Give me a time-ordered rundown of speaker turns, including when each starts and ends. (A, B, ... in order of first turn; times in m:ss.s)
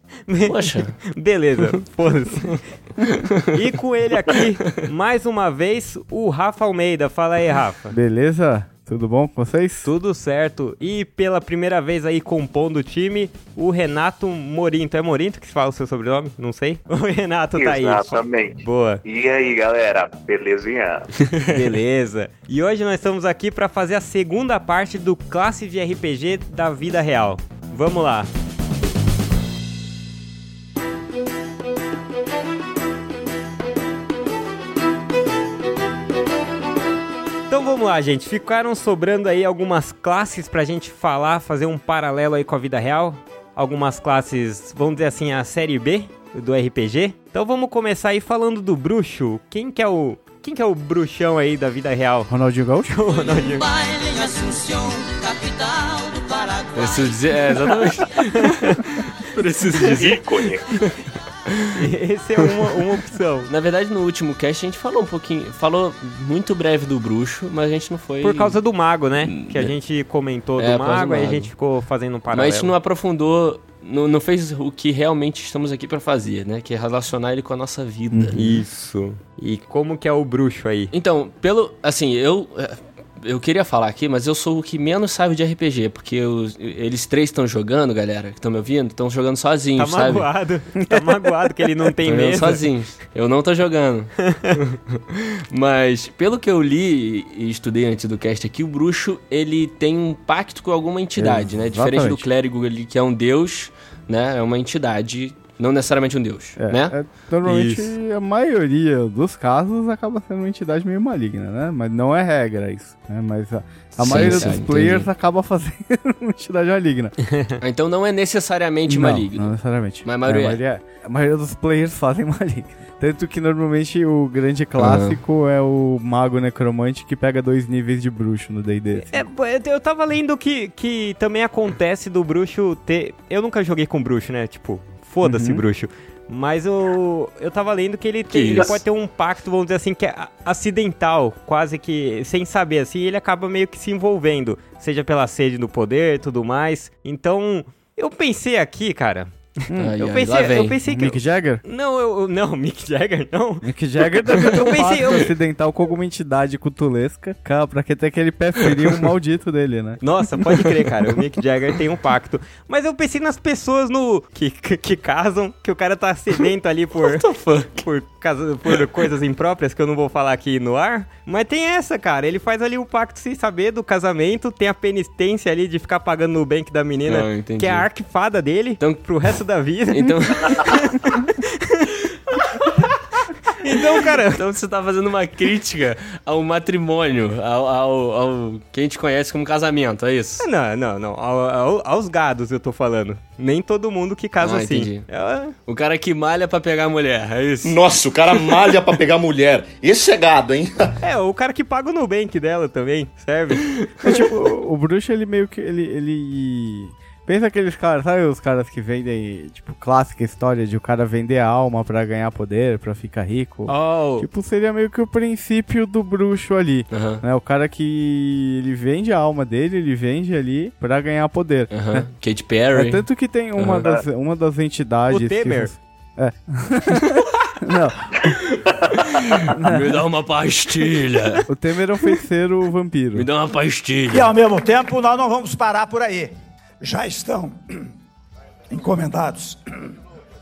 0:00.3-0:02.6 A
0:00.4-0:01.0 B
0:02.5-0:03.5 B
0:03.5-0:07.9 A
0:07.9-0:09.9 C
0:09.8-0:19.0 A
0:17.6-0:21.1 D
0:21.5-0:28.3 A
0:37.5-0:52.3 A
0:52.3-0:53.0 C
0:52.9-0:53.7 A
0:53.2-0:57.9 E
0:56.8-1:01.7 B
0:58.4-0:58.8 A
0:59.8-1:00.1 A
0:59.9-1:00.7 D
1:01.7-1:03.5 A
1:03.5-1:08.6 B
1:08.2-1:12.7 A
1:09.2-1:09.7 B
1:10.6-1:11.5 B
1:12.3-1:18.5 B
1:18.1-1:18.6 C
1:18.4-1:20.9 A
1:20.9-1:30.3 B
1:29.8-1:32.6 A
1:30.8-1:31.7 C
1:32.1-1:34.1 B
1:34.2-1:34.6 A
1:34.7-1:47.0 B
1:41.2-1:42.3 C
1:46.6-1:57.2 C
1:47.4-1:47.9 A
1:54.0-1:55.1 B
1:57.2-1:57.6 A
1:57.6-1:59.5 B
1:58.9-2:09.2 C
2:00.0-2:00.6 B
2:04.8-2:05.2 B
2:09.0-2:29.3 A
2:15.2-2:15.6 C
2:18.3-2:18.8 B
2:29.7-2:30.0 C
2:29.8-2:30.8 B
2:30.0-2:33.7 A
2:30.8-2:31.6 C
2:33.6-2:40.0 C
2:34.2-2:35.3 A
2:40.0-2:47.3 A
2:47.0-2:47.9 B
2:47.8-3:02.0 A
2:57.1-2:57.9 B
2:59.9-3:01.0 B
3:02.5-3:03.0 B
3:02.6-3:02.8 A
3:03.4-3:04.4 A
3:03.7-3:10.4 B
3:10.4-3:15.6 A
3:14.4-3:15.1 B
3:15.7-3:17.8 B
3:17.6-3:20.9 F
3:21.0-3:23.7 A
3:23.6-3:24.2 B
3:24.0-3:42.1 C
3:33.7-3:34.3 B
3:36.9-3:37.2 B
3:41.7-3:43.0 B
3:42.7-3:48.4 C
3:43.6-3:43.9 B
3:45.1-3:45.7 A
3:48.3-3:51.4 B
3:49.5-3:50.0 C
3:51.5-3:53.3 C
3:53.2-3:54.3 B
3:54.1-3:57.9 G
3:58.7-3:59.9 G